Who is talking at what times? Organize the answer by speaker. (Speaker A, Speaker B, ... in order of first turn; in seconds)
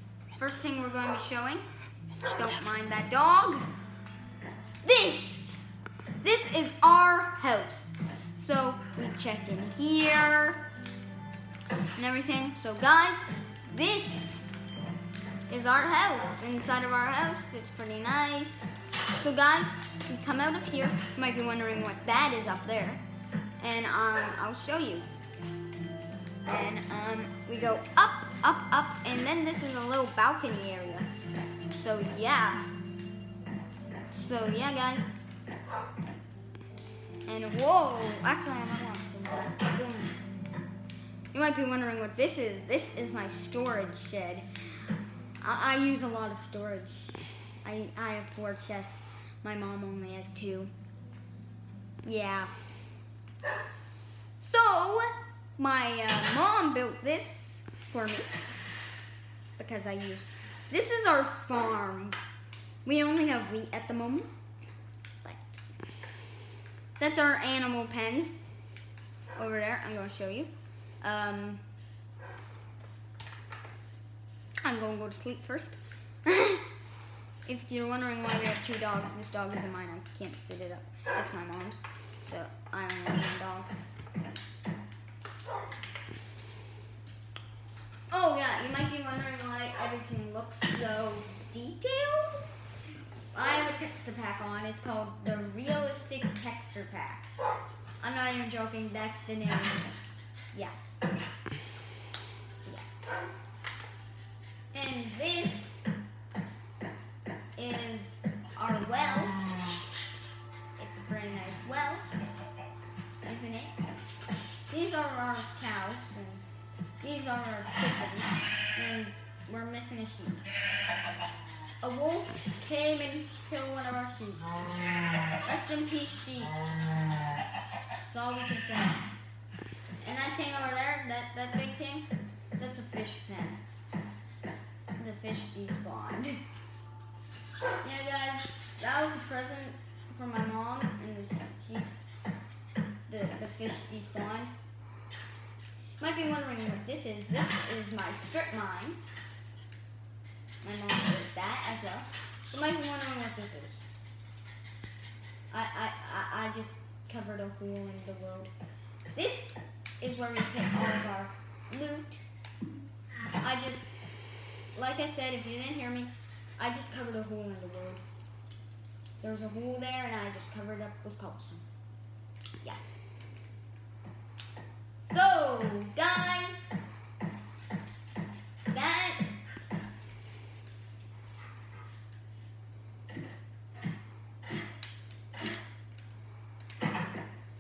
Speaker A: 0.3-1.6, 2.3-3.7, 4.8-10.7, 12.0-14.4, 15.5-23.0, 23.6-25.1, 26.5-31.1, 31.7-32.7, 34.1-35.1, 37.3-40.1, 41.3-44.5, 45.4-50.7, 52.0-52.5, 54.4-58.3, 59.6-62.2, 62.9-64.3, 65.2-65.5, 67.0-68.4, 69.3-71.6, 74.6-76.7, 77.5-83.7, 88.1-92.5, 93.3-97.3, 98.0-99.9, 104.7-105.9, 107.6-109.4, 110.8-112.1, 113.2-113.8, 114.7-116.4, 117.0-120.4, 121.8-124.7, 125.4-126.6, 128.1-129.1, 130.0-133.6, 135.0-136.4, 137.8-141.9, 143.1-144.5, 146.0-149.0, 150.6-153.8, 155.5-158.5, 159.1-162.2, 163.4-163.9, 164.7-168.0, 169.2-171.7, 175.0-176.8, 178.7-179.4